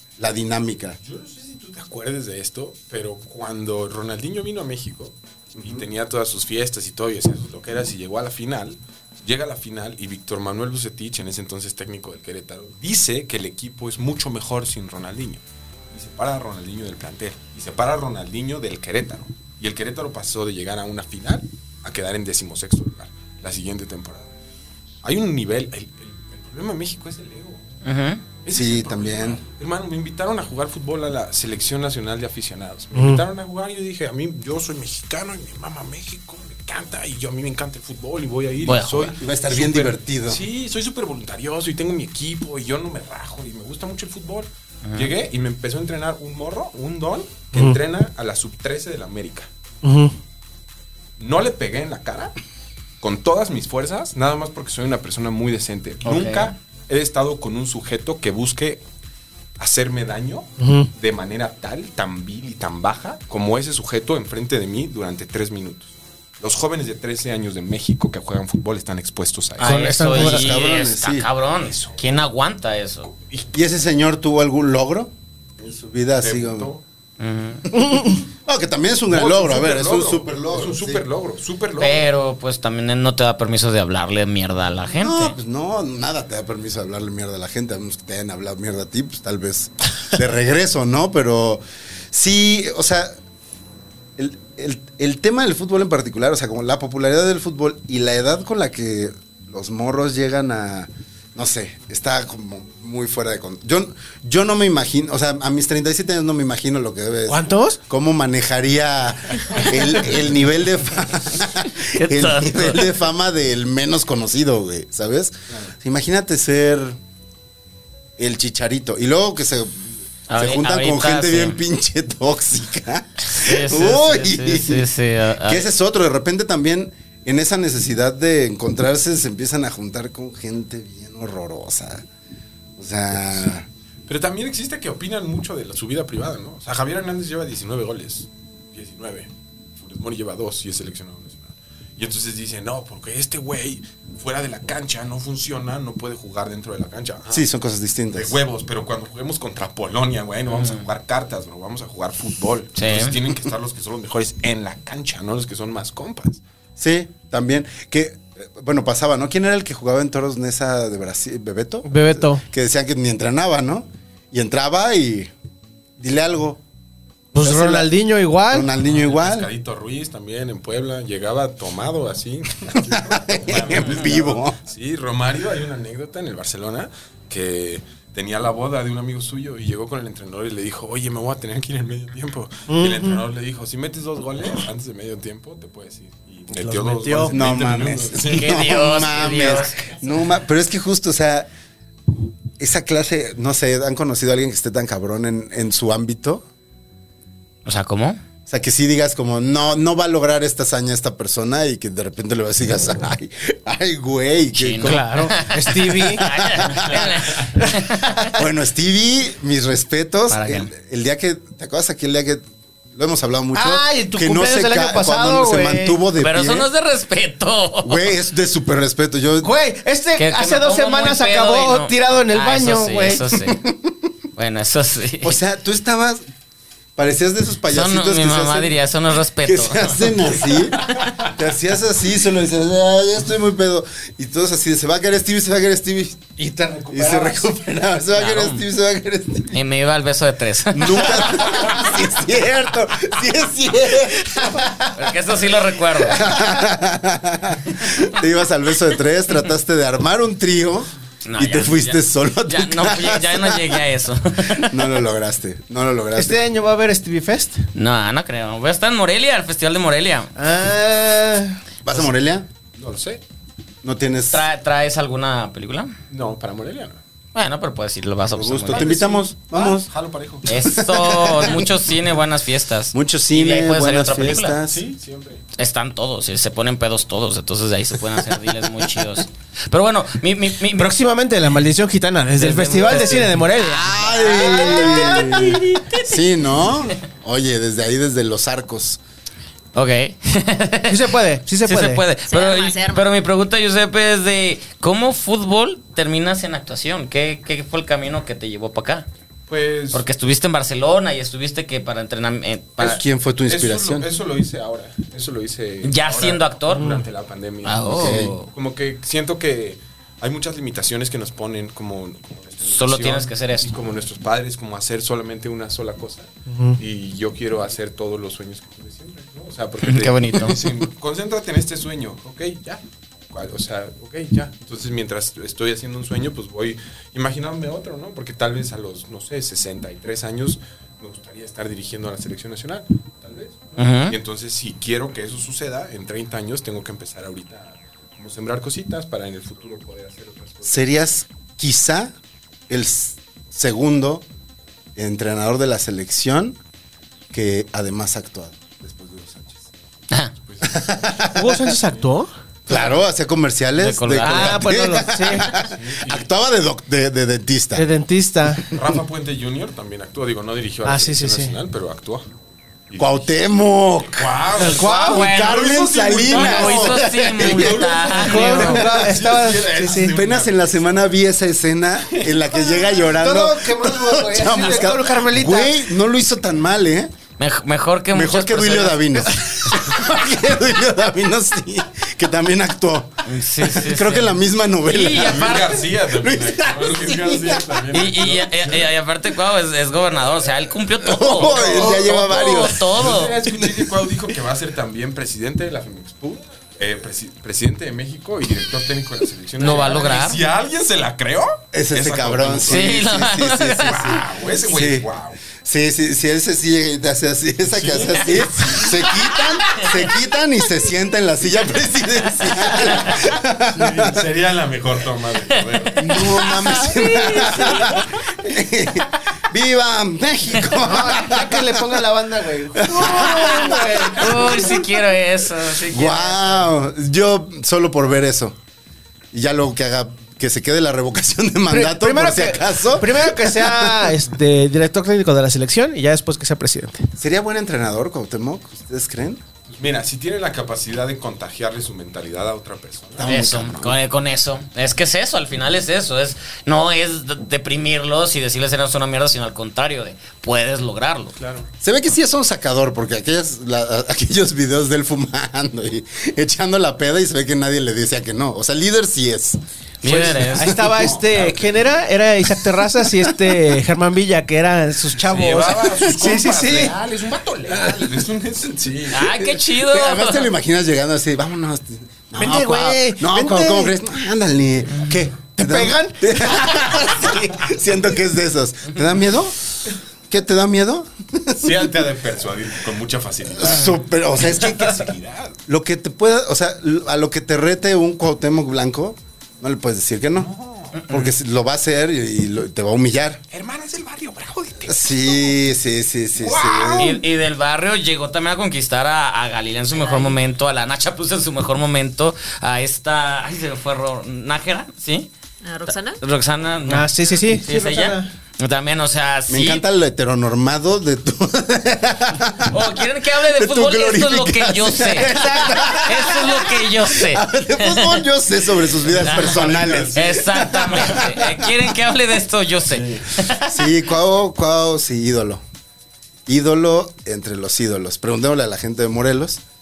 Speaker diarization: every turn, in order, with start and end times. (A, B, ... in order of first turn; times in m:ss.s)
0:00.2-0:01.0 A
0:01.0-0:24.3 B
0:05.6-0:05.9 A
0:25.0-0:27.6 B
0:27.8-0:28.2 C
0:28.4-0:49.5 B
0:28.5-0:29.4 A
0:33.0-0:33.2 D
0:38.6-0:39.2 C
0:39.2-0:40.4 A
0:44.8-0:45.1 C
0:47.5-0:47.8 D
0:49.8-0:50.1 D
0:51.2-0:52.3 B
0:53.0-0:58.8 B
0:56.0-0:56.5 C
0:59.6-1:09.9 B
1:00.6-1:00.9 D
1:09.6-1:13.1 C
1:09.6-1:10.5 D
1:10.0-1:11.3 A
1:11.6-1:12.2 B
1:13.1-1:13.5 B
1:13.5-1:16.7 A
1:16.2-1:16.8 B
1:17.2-1:17.6 C
1:17.7-1:21.0 A
1:17.8-1:18.2 D
1:19.1-1:22.1 B
1:21.8-1:25.3 C
1:24.9-1:33.2 A
1:34.2-1:57.0 A
1:47.3-1:47.8 D
1:51.8-1:52.9 C
1:58.2-2:04.9 A
2:00.3-2:01.6 C
2:03.3-2:05.7 C
2:05.4-2:12.0 A
2:12.8-2:13.7 A
2:14.1-2:27.4 B
2:27.3-2:28.4 A
2:28.1-2:36.4 B
2:30.5-2:30.8 C
2:32.8-2:33.1 C
2:36.8-2:45.3 A
2:41.9-2:42.4 D
2:46.0-2:46.6 A
2:47.3-2:48.7 D
2:47.4-2:47.9 A
2:48.5-2:49.5 A
2:48.8-3:08.7 B
2:52.8-2:54.6 A
3:02.7-3:03.2 D
3:06.5-3:07.3 D
3:07.2-3:11.5 A
3:08.3-3:09.7 C
3:12.6-3:16.4 A
3:17.6-3:18.2 C
3:18.5-3:27.7 A
3:24.5-3:28.3 C
3:24.8-3:26.3 D
3:28.2-3:36.7 A
3:30.3-3:30.7 C
3:33.5-3:36.0 D
3:36.2-3:38.1 C
3:37.8-3:39.5 A
3:39.4-3:43.2 D
3:40.2-3:43.6 C
3:43.5-3:44.0 A
3:44.4-3:45.4 C
3:45.2-3:46.2 A
3:47.0-3:48.8 A
3:47.7-3:50.1 C
3:49.4-3:56.3 A
3:51.0-3:51.3 B
3:56.4-3:57.4 D
3:56.9-3:59.6 A
3:58.1-3:58.6 C
3:59.5-4:01.4 C
4:00.7-4:04.9 A
4:04.3-4:04.8 D
4:04.9-4:06.3 C
4:06.0-4:13.9 A
4:11.2-4:14.8 C
4:14.5-4:16.4 A
4:16.2-4:17.7 D
4:17.7-4:20.3 C
4:20.4-4:21.6 D
4:21.8-4:22.5 A
4:22.8-4:23.2 B
4:23.8-4:24.4 A
4:24.3-4:26.0 C
4:26.1-4:27.0 B
4:27.3-4:28.9 C
4:28.3-4:29.9 A
4:28.7-4:30.6 B
4:30.4-4:34.6 C
4:30.5-4:31.7 A
4:32.9-4:34.9 A
4:34.7-4:35.4 B
4:35.6-4:41.0 C
4:40.7-4:46.0 D
4:42.4-4:45.4 C
4:43.6-4:49.0 A
4:49.7-4:59.1 C
4:50.9-4:52.0 D
4:52.2-4:53.0 E
4:59.5-5:00.0 B
4:59.9-5:03.0 C
5:02.8-5:04.1 A
5:03.5-5:40.9 B
5:05.8-5:07.0 C
5:06.7-5:07.0 D
5:07.6-5:08.5 C
5:07.9-5:08.3 A
5:12.6-5:13.7 C
5:16.5-5:16.8 D
5:19.8-5:20.6 C
5:33.8-5:34.2 C
5:40.7-5:42.1 A
5:42.7-5:44.2 A
5:45.0-5:46.6 A
5:47.3-5:49.7 A
5:50.4-5:50.9 B
5:50.6-5:51.8 A
5:51.3-5:52.3 D
5:52.7-5:57.9 A
5:53.8-5:54.7 C
5:54.2-5:55.5 D
5:55.4-5:56.3 B
5:57.7-5:58.7 D
5:58.7-6:02.3 B
6:00.8-6:01.6 D
6:02.9-6:03.3 B
6:03.0-6:04.5 A
6:04.1-6:11.0 B
6:04.6-6:05.3 D
6:04.8-6:08.8 C
6:05.0-6:09.1 A
6:08.1-6:10.1 D
6:10.0-6:17.1 A
6:12.6-6:15.8 D
6:17.4-6:19.9 C
6:18.1-6:27.8 A
6:23.2-6:25.8 C
6:25.1-6:28.9 B
6:27.9-6:33.4 C
6:31.0-6:34.0 A
6:31.4-6:32.2 B
6:32.9-6:43.1 B
6:39.6-6:40.4 C
6:41.7-6:54.3 A
6:42.7-6:44.2 C
6:43.7-6:45.4 B
6:47.7-6:49.9 B
6:53.7-6:56.2 B
6:56.0-7:02.1 A
6:56.2-6:57.9 C
6:57.2-6:57.5 D
7:00.8-7:04.7 D
7:02.7-7:04.8 A
7:03.2-7:06.6 C
7:05.8-7:08.6 A
7:09.3-7:14.2 A
7:11.7-7:17.1 D
7:17.2-7:19.4 A
7:19.7-7:23.3 B
7:23.2-7:24.0 A
7:23.2-7:31.3 C
7:31.4-7:31.7 B
7:31.8-7:39.6 A
7:40.0-7:40.8 C
7:40.0-7:47.0 D
7:40.7-7:42.0 B
7:45.2-7:49.5 B
7:47.7-7:48.0 D
7:49.1-7:50.5 C
7:49.5-7:59.6 A
7:52.4-7:54.0 D
7:55.6-7:56.8 D
8:00.3-8:01.9 A
8:01.6-8:05.6 B
8:03.5-8:05.1 A
8:05.7-8:10.5 A
8:10.3-8:11.1 B
8:11.1-8:13.4 A
8:13.5-8:15.6 B
8:14.8-8:17.2 A
8:16.4-8:17.2 B
8:17.0-8:25.3 C
8:19.9-8:20.4 E
8:25.6-8:26.2 E
8:25.9-8:29.8 C
8:26.9-8:28.3 D
8:29.5-8:41.9 A
8:32.7-8:38.2 C
8:35.2-8:35.8 D
8:39.0-8:40.2 B
8:39.2-8:43.9 C
8:42.9-8:43.3 B
8:43.6-8:45.6 A
8:46.5-8:49.6 A